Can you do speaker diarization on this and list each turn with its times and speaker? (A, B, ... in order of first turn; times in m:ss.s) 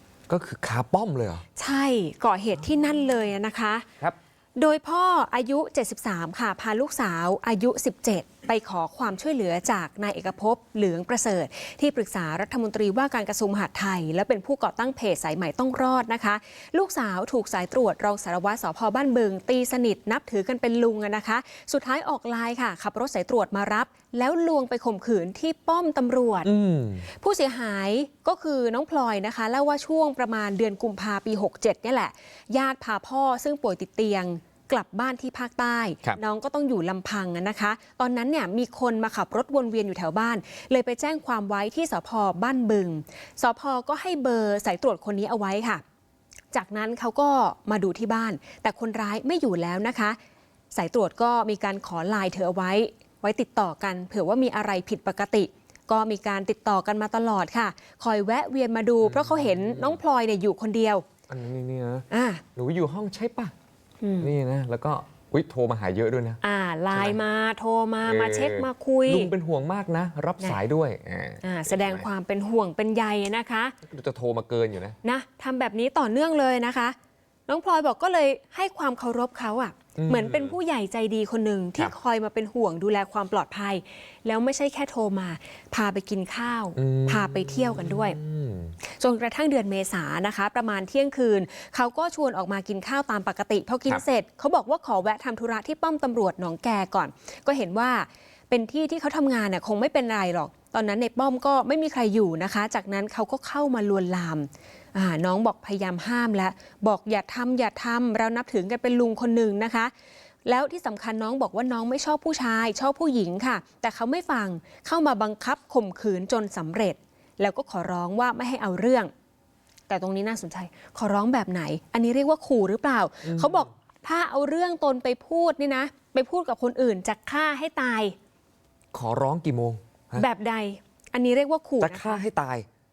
0:00.3-0:01.4 A
0:01.6-0:03.9 B
0:04.6-0:26.5 B
0:26.4-0:27.0 A
0:27.1-0:45.8 B
0:46.5-0:50.2 B
0:50.7-1:01.0 B
0:59.0-1:00.0 A
1:01.3-1:03.5 A
1:02.1-1:02.4 B
1:04.0-1:04.3 B
1:04.2-1:06.4 A
1:06.4-1:09.3 B
1:06.9-1:07.2 A
1:08.0-1:12.0 A
1:11.4-1:13.7 B
1:13.8-1:15.0 A
1:15.0-1:17.0 B
1:17.5-1:28.2 B
1:20.0-1:20.6 A
1:26.8-1:28.7 A
1:28.8-1:49.9 B
1:50.4-1:59.1 B
1:59.9-2:08.1 B
2:03.2-2:03.6 A
2:08.9-2:10.2 A
2:10.1-2:12.2 B
2:11.8-2:12.6 A